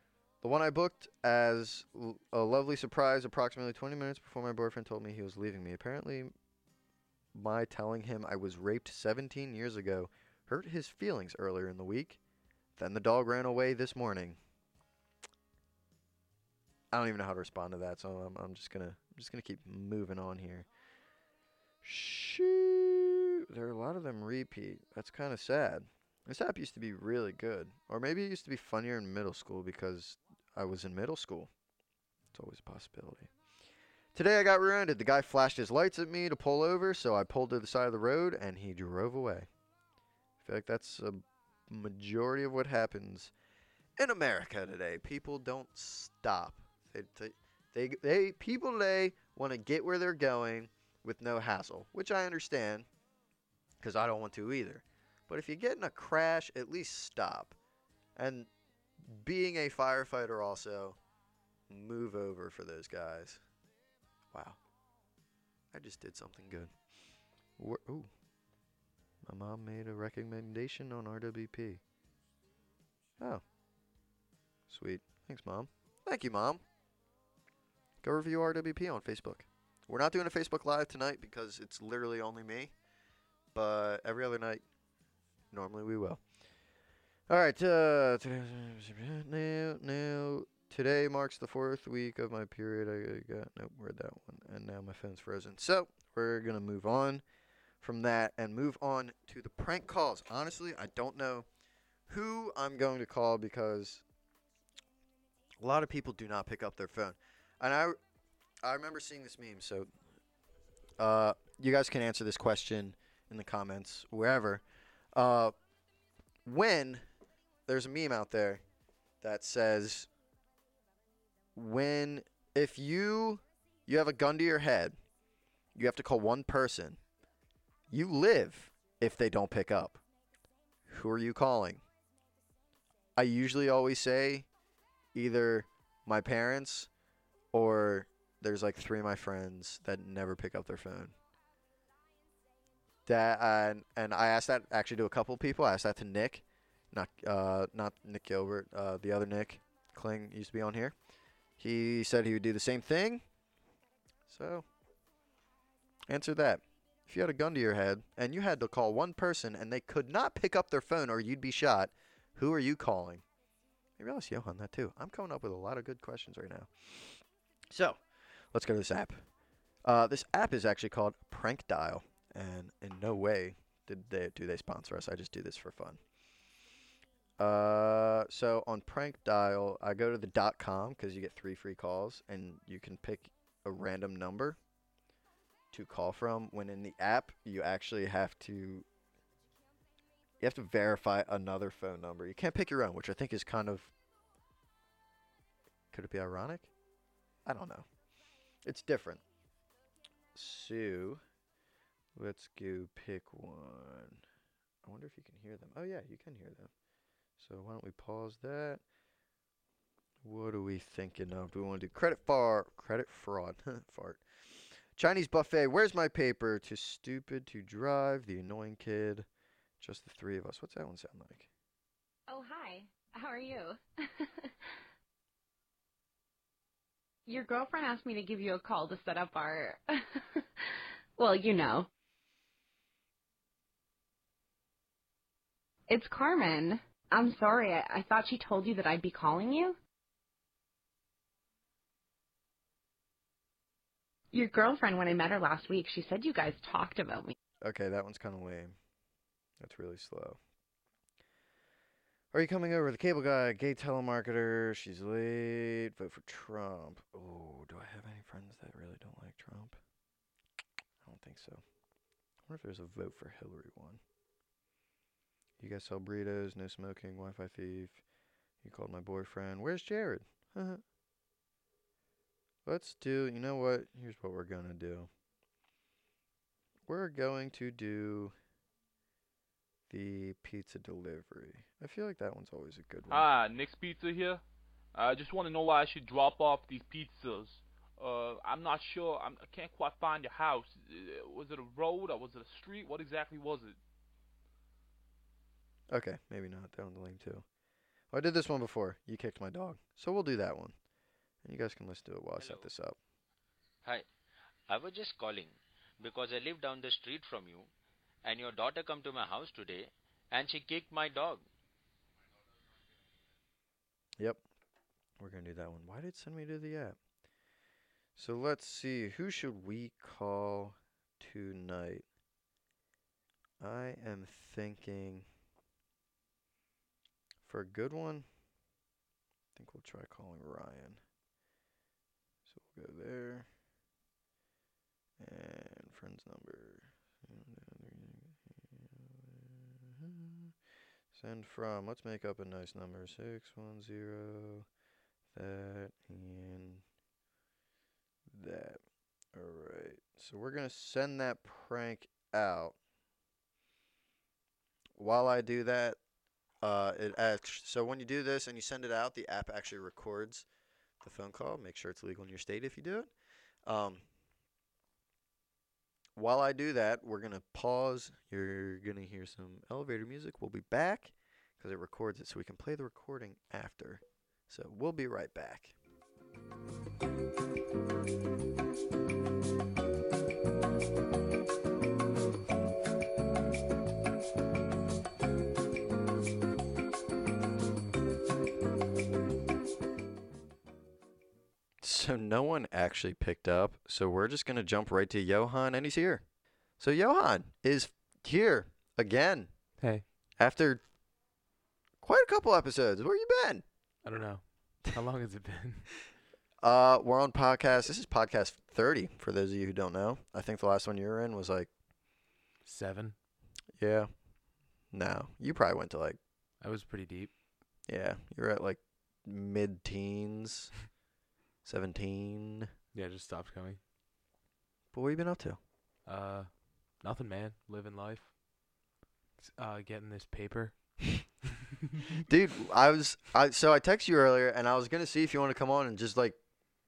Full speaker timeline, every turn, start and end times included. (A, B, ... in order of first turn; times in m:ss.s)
0:00.4-0:06.3 A
0:07.3-0:12.2 A
0:12.8-0:14.4 A
0:16.9-0:20.7 A
0:21.8-0:31.5 A
0:32.3-0:33.3 A
0:34.2-0:39.5 A
0:40.4-0:43.3 A
0:44.0-0:52.9 A
0:53.8-0:57.6 A
0:58.2-1:01.0 A
1:01.7-1:03.4 A
1:04.3-1:04.6 A
1:05.7-1:06.7 A
1:07.6-1:08.1 A
1:09.2-1:11.8 A
1:14.7-1:16.6 A
1:18.0-1:22.7 A
1:23.5-1:24.6 A
1:25.5-1:26.2 A
1:27.3-1:37.2 A
1:37.8-1:41.5 A
1:42.1-1:44.0 A
1:45.6-1:48.0 A
1:48.6-1:49.9 A
1:51.0-1:54.6 A
1:55.1-1:55.5 A
1:56.4-1:57.0 A
1:57.7-1:58.6 A
1:59.2-2:00.1 A
2:01.6-2:05.0 A
2:05.8-2:07.0 A
2:07.9-2:10.0 A
2:10.9-2:11.8 A
2:13.2-2:14.5 A
2:15.1-2:16.9 A
2:17.5-2:21.2 A
2:23.1-2:31.0 A
2:31.6-2:33.2 A
2:34.3-2:34.7 A
2:36.1-2:43.2 A
2:44.0-2:48.0 A
2:48.5-2:49.2 A
2:49.8-2:56.0 A
2:57.4-3:04.6 A
3:05.7-3:08.9 A
3:10.4-3:13.9 A
3:15.9-3:16.7 A
3:17.4-3:17.9 A
3:18.6-3:19.2 A
3:20.4-3:21.2 A
3:22.2-3:24.2 A
3:24.8-3:26.7 A
3:27.4-3:28.8 A
3:30.2-3:34.2 A
3:35.0-3:39.3 A
3:39.8-3:41.5 A
3:42.3-3:44.5 B
3:47.3-3:49.8 B
3:50.4-3:51.9 B
3:55.9-3:59.8 B
4:04.3-4:07.4 B
4:07.6-4:08.8 A
4:09.6-4:10.4 A
4:12.3-4:19.8 A
4:21.0-4:21.6 A
4:22.5-4:24.0 A
4:25.6-4:28.0 A
4:28.6-4:30.8 A
4:32.7-4:35.1 A
4:36.9-4:38.4 A
4:39.9-4:43.3 A
4:43.1-4:44.4 C
4:44.9-4:53.8 C
4:55.9-4:57.5 A
4:58.1-5:00.8 A
5:01.4-5:03.0 A
5:02.4-5:02.7 D
5:04.7-5:07.7 D
5:08.2-5:11.4 D
5:15.2-5:17.0 A
5:18.2-5:22.1 A
5:23.6-5:25.3 A
5:27.4-5:28.3 A
5:29.5-5:31.0 A
5:32.5-5:33.5 A
5:35.2-5:40.5 A
5:41.1-5:44.7 A
5:45.3-5:46.8 A
5:48.3-5:48.8 A
5:49.3-5:52.8 A
5:55.0-5:56.0 A
5:56.6-6:00.5 A
6:01.0-6:03.1 A
6:03.7-6:04.0 A
6:06.2-6:15.8 A
6:31.8-6:36.2 A
6:36.8-6:39.5 A
6:39.8-6:40.1 E
6:40.4-6:40.8 A
6:42.0-6:43.6 A
6:44.0-6:45.9 E
6:46.6-6:51.7 A
6:52.6-6:53.2 E
6:53.8-6:54.1 A
6:54.9-6:56.2 A
6:56.6-6:57.3 E
6:57.9-7:00.7 A
7:01.6-7:02.7 A
7:02.9-7:03.8 E
7:04.9-7:05.6 A
7:06.1-7:08.3 E
7:09.4-7:11.2 E
7:12.3-7:16.4 A